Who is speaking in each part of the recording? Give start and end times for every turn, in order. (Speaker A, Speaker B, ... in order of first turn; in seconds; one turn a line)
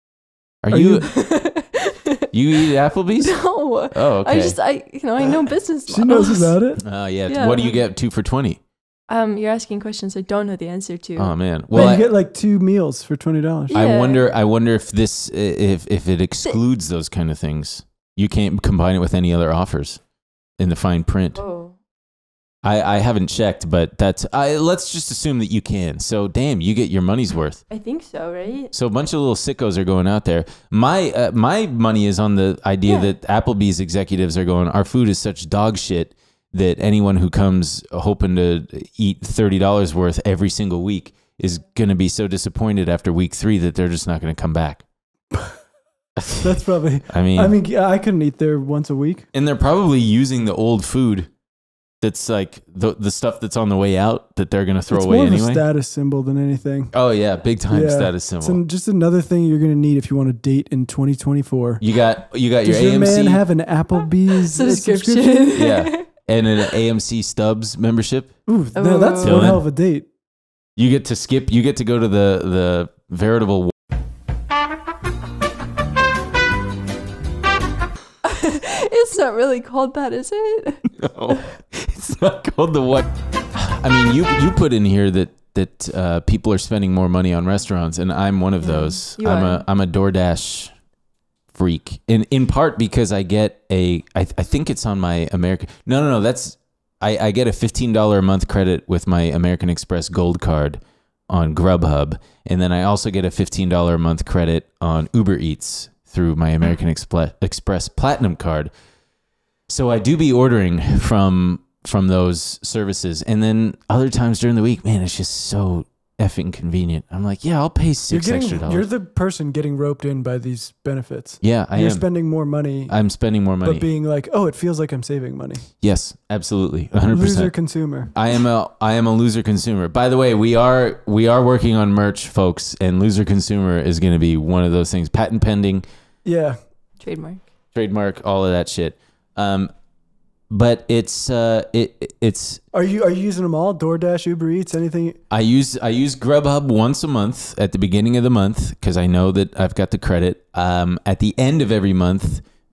Speaker A: 0.6-1.1
Speaker B: 0.7-1.1
Speaker C: 1.1-2.2
Speaker A: 2.3-4.6
Speaker C: 3.2-6.6
Speaker B: 5.9-6.8
Speaker A: 6.8-8.6
Speaker C: 7.3-7.8
Speaker C: 9.1-11.9
Speaker A: 11.2-12.1
Speaker B: 11.7-13.8
Speaker C: 13.7-14.3
Speaker A: 13.7-20.0
Speaker A: 20.6-21.4
Speaker C: 21.4-21.8
Speaker A: 22.6-27.6
Speaker C: 27.7-28.7
Speaker A: 28.7-44.8
Speaker C: 32.9-33.1
Speaker A: 46.2-46.5
Speaker B: 46.4-49.3
Speaker A: 47.1-47.5
Speaker A: 49.3-51.3
Speaker A: 52.0-55.6
Speaker B: 54.9-56.9
Speaker A: 56.9-58.6
Speaker B: 57.7-61.8
Speaker A: 61.8-63.4
Speaker B: 62.6-65.5
Speaker C: 64.4-66.0
Speaker A: 65.5-68.3
Speaker B: 68.5-70.1
Speaker C: 68.8-69.5
Speaker A: 69.2-69.6
Speaker A: 70.8-73.7
Speaker C: 78.2-80.9
Speaker A: 81.0-90.8
Speaker C: 88.6-89.6
Speaker A: 91.5-108.7
Speaker A: 109.7-118.8
Speaker B: 118.1-123.0
Speaker A: 121.4-122.1
Speaker A: 122.9-123.9
Speaker B: 123.6-125.7
Speaker A: 125.8-135.8
Speaker B: 127.1-128.1
Speaker B: 136.2-136.6
Speaker C: 137.0-137.4
Speaker A: 137.7-139.7
Speaker A: 140.5-142.6
Speaker B: 142.7-145.2
Speaker A: 145.3-152.4